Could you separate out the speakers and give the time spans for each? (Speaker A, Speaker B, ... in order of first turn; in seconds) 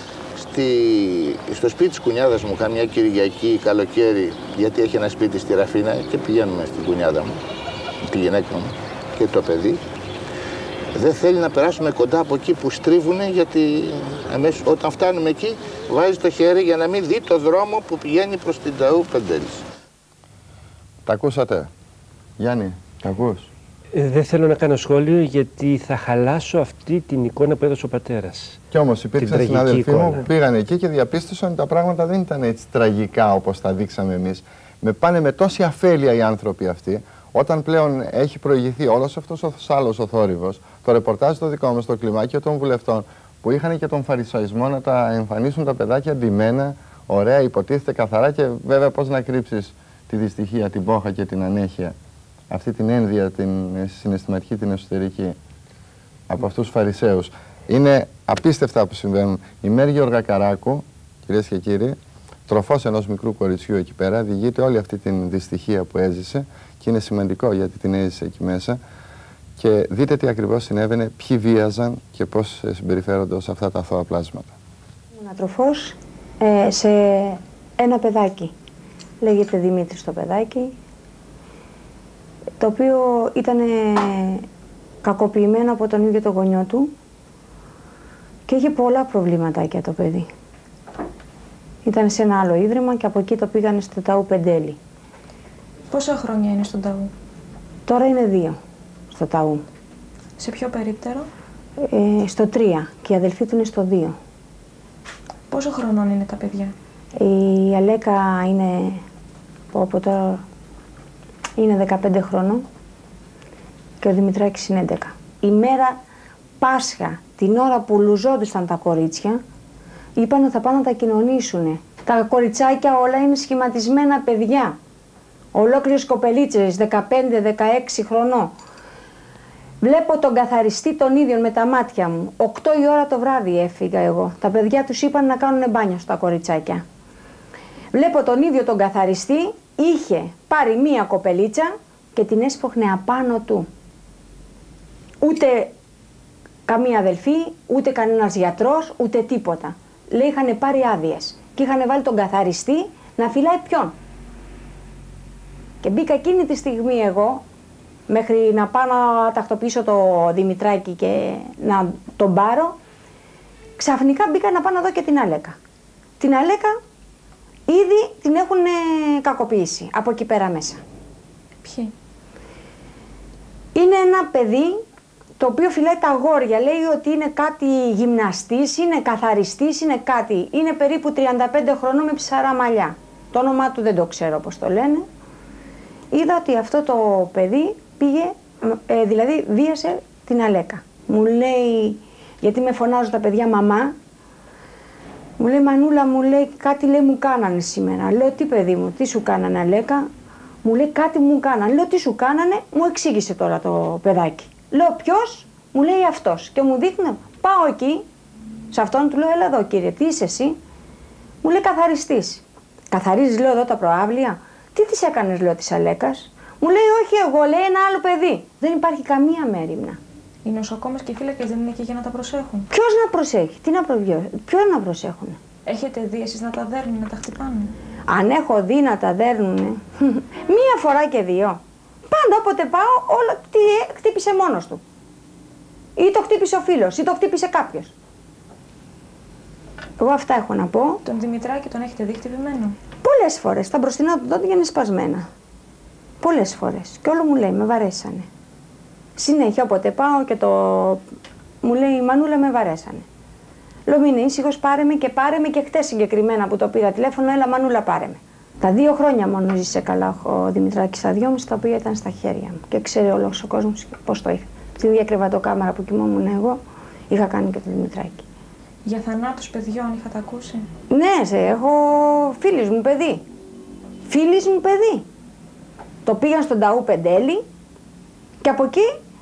Speaker A: 0.3-7.4, 8.1-9.8, 10.9-19.6
Speaker B: 21.1-21.7, 22.4-23.5, 28.7-52.0, 52.5-55.4, 56.3-68.8, 69.6-74.5
Speaker C: 23.9-28.6, 29.2-30.2
Speaker D: 75.1-78.5, 79.2-80.8, 82.6-84.5, 85.0-86.9, 88.5-90.3, 91.8-94.8, 97.9-98.6, 99.1-99.6, 101.8-104.2, 107.2-109.0, 109.7-110.4, 111.6-112.6, 114.0-116.0, 116.6-119.4, 120.2-124.8, 125.5-128.5, 129.8-136.8, 137.9-143.7, 145.2-145.7, 146.7-153.9, 155.8-157.4, 158.1-162.8, 163.8-165.6, 166.2-166.8, 167.7-170.8, 173.8-174.8, 175.4-185.1, 186.1-194.0, 195.4-200.1, 200.6-208.1, 208.7-210.6, 211.4-220.0, 222.7-225.4, 228.1-234.8, 236.0-237.9, 240.0-241.0, 243.0-245.3, 246.2-248.3, 249.2-251.0, 251.6-253.1, 253.9-268.2, 270.9-273.2, 274.1-275.1, 276.1-277.4, 278.4-278.9
Speaker E: 95.9-97.1, 100.4-101.3, 105.5-106.7, 171.6-171.9, 220.4-222.7, 225.7-227.8, 241.0-242.8, 268.9-270.7